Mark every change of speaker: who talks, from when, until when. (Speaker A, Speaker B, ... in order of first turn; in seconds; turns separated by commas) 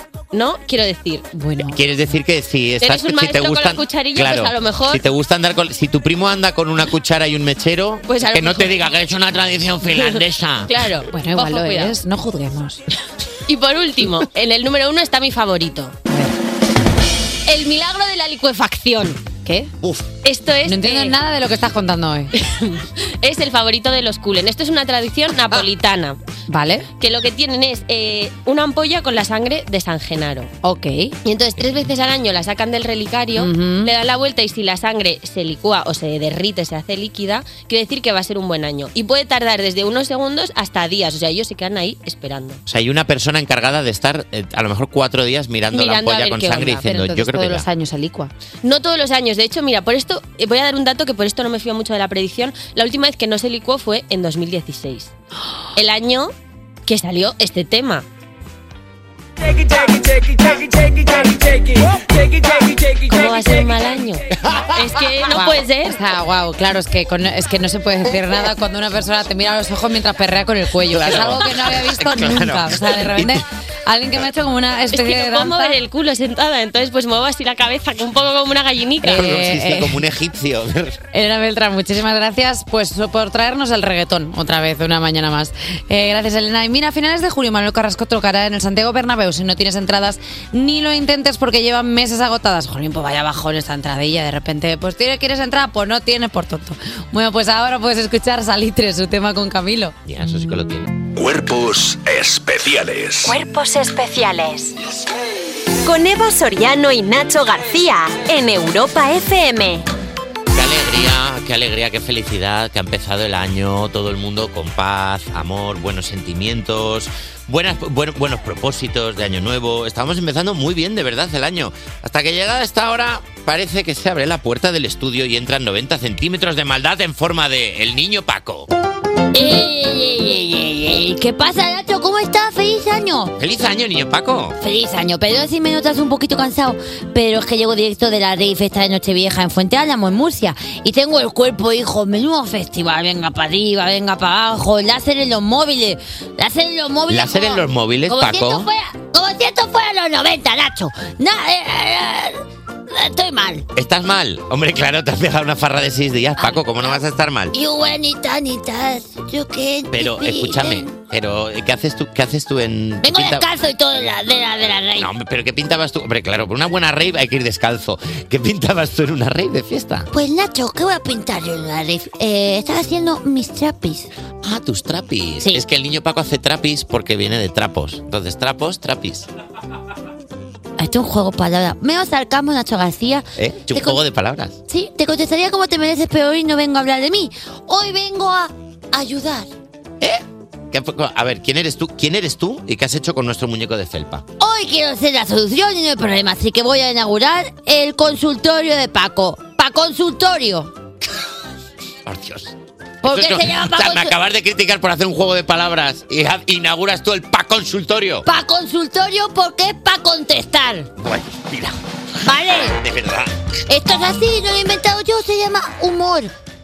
Speaker A: 0.3-1.3, Speaker B: 1.3-1.8, Speaker C: 1.6-10.8, Speaker A: 2.8-5.0, Speaker A: 8.1-8.8, Speaker A: 9.9-12.0, Speaker B: 11.1-12.8, Speaker A: 13.5-15.9, Speaker B: 16.1-16.4, Speaker A: 17.5-19.4, Speaker B: 19.4-19.7, Speaker C: 19.8-20.1, Speaker A: 20.2-21.2, Speaker B: 20.6-22.3, Speaker A: 22.4-26.2, Speaker B: 26.5-26.9, Speaker A: 27.0-30.5, Speaker B: 30.6-31.2, Speaker A: 31.2-42.6, Speaker B: 33.4-33.9, Speaker C: 42.7-47.6, Speaker A: 45.7-46.9, Speaker B: 46.6-48.3, Speaker A: 48.6-55.1, Speaker A: 55.8-56.3, Speaker A: 56.9-58.0, Speaker A: 63.0-64.2, Speaker A: 64.8-66.0, Speaker B: 65.3-75.8, Speaker C: 70.9-73.4, Speaker A: 74.9-79.2, Speaker B: 79.0-80.0, Speaker C: 79.0-81.0, Speaker B: 81.1-100.0, Speaker C: 100.1-100.9, Speaker D: 101.2-103.4, Speaker E: 103.2-104.8, Speaker E: 105.8-109.9, Speaker C: 110.5-128.7, Speaker F: 129.3-133.3, Speaker C: 133.4-134.6, Speaker F: 134.6-153.7, Speaker C: 147.1-148.7, Speaker C: 153.8-157.5, Speaker F: 156.4-160.9, Speaker C: 159.9-163.5, Speaker F: 163.0-165.1, Speaker C: 165.0-170.1, Speaker F: 170.1-174.1, Speaker C: 174.4-179.3, Speaker F: 180.8-184.0, Speaker C: 183.4-184.6, Speaker F: 184.7-189.5, Speaker C: 190.0-194.2, Speaker F: 194.4-200.7, Speaker C: 202.1-208.3, Speaker F: 203.0-204.1, Speaker F: 208.2-210.9, Speaker C: 211.0-213.3, Speaker F: 212.2-212.8, Speaker F: 213.7-216.3